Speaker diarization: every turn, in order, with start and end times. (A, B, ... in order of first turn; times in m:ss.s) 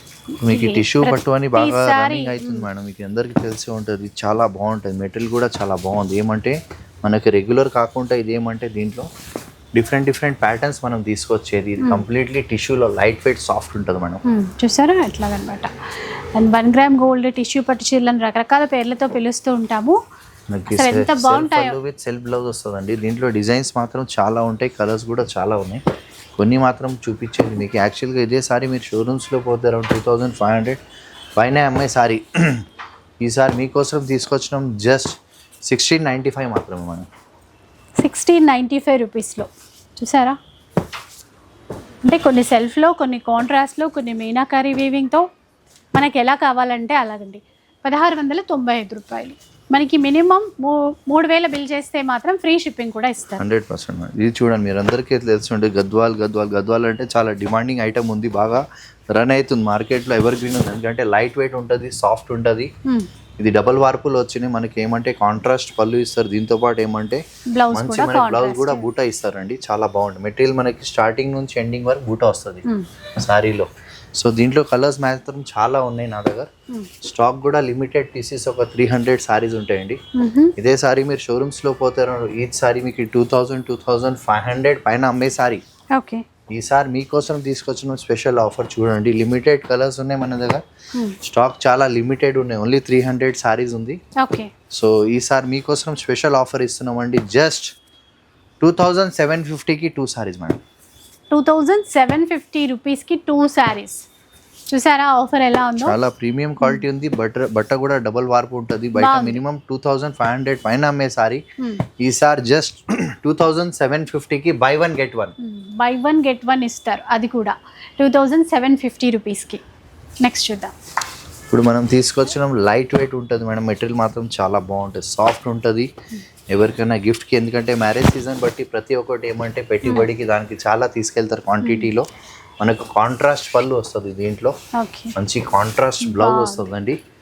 0:00.4-0:02.7 A
0:00.4-0:09.1 B
0:09.7-0:14.2 B
0:14.2-0:15.7 A
0:16.4-0:20.0 A
0:20.5-0:25.8 B
0:20.7-0:21.8 A
0:26.4-0:30.8 B
0:31.4-0:32.7 B
0:33.2-0:37.1 B
0:38.0-0:40.4 A
0:42.0-0:45.3 A
0:45.9-0:53.4 A
0:53.4-1:02.7 B
1:03.4-1:12.7 B
1:07.5-1:08.9 A
1:13.2-1:16.5 B
1:17.0-1:20.0 B
1:20.2-1:20.6 A
1:20.6-1:25.6 B
1:25.9-1:26.2 A
1:26.5-1:30.6 B
1:31.2-1:34.0 B
1:34.2-1:34.5 A
1:34.7-1:37.7 B
1:38.6-1:40.6 B
1:41.3-1:44.1 A
1:44.7-1:46.0 A
1:45.8-1:51.4 B
1:49.0-1:49.4 A
1:52.0-1:55.3 B
1:55.4-1:59.6 A
2:00.2-2:00.7 A
2:01.5-2:05.9 B
2:06.5-2:12.1 B
2:09.8-2:10.1 A
2:11.6-2:11.9 A
2:12.6-2:14.6 B
2:14.8-2:15.2 A
2:15.2-2:17.0 B
2:16.0-2:16.7 A